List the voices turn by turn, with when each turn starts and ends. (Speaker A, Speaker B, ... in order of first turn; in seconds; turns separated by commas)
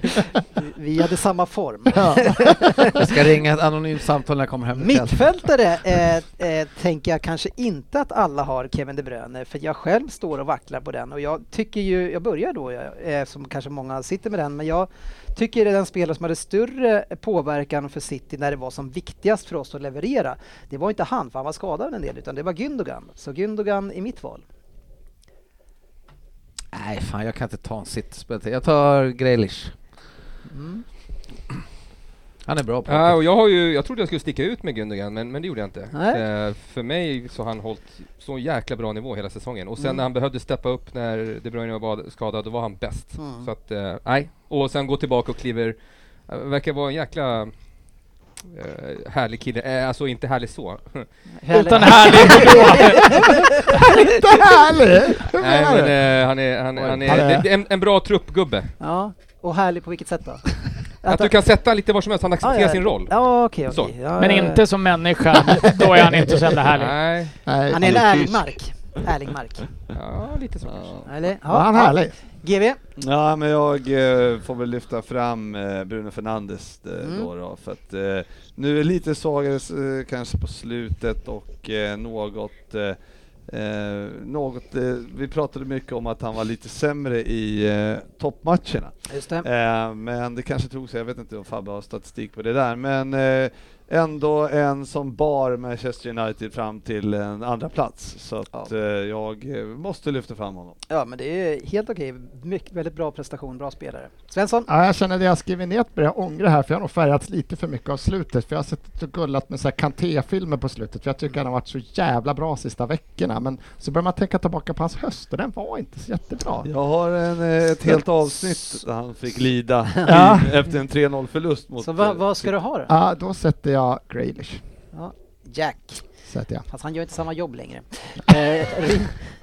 Speaker A: 0.6-3.1, Speaker B: 2.0-2.6, Speaker C: 2.9-5.2, Speaker A: 4.7-24.4, Speaker C: 26.7-29.7, Speaker A: 30.5-30.8, Speaker C: 32.5-33.2, Speaker D: 32.9-45.8, Speaker A: 35.9-36.2, Speaker A: 43.2-43.5, Speaker D: 46.3-47.5, Speaker D: 48.5-51.1, Speaker A: 51.4-53.9, Speaker E: 51.5-53.3, Speaker D: 51.8-53.1, Speaker B: 53.8-56.0, Speaker D: 55.4-58.7, Speaker B: 57.0-57.4, Speaker A: 58.8-60.5, Speaker A: 61.0-61.3, Speaker D: 61.0-63.1, Speaker A: 62.4-64.6, Speaker D: 63.7-63.9, Speaker E: 64.2-67.0, Speaker B: 65.5-66.5, Speaker D: 66.7-67.3, Speaker B: 67.5-68.4, Speaker A: 67.7-69.7, Speaker D: 69.9-70.9, Speaker F: 70.7-71.0, Speaker A: 71.1-72.8, Speaker B: 71.5-72.1, Speaker F: 73.0-100.8, Speaker A: 77.0-77.3, Speaker A: 89.1-89.5, Speaker A: 100.9-104.7, Speaker B: 104.7-116.7, Speaker F: 116.7-122.5, Speaker A: 120.0-120.4, Speaker B: 120.1-120.5, Speaker A: 121.8-122.9, Speaker B: 122.9-124.6, Speaker A: 124.9-126.0, Speaker B: 126.3-126.7, Speaker A: 126.7-129.2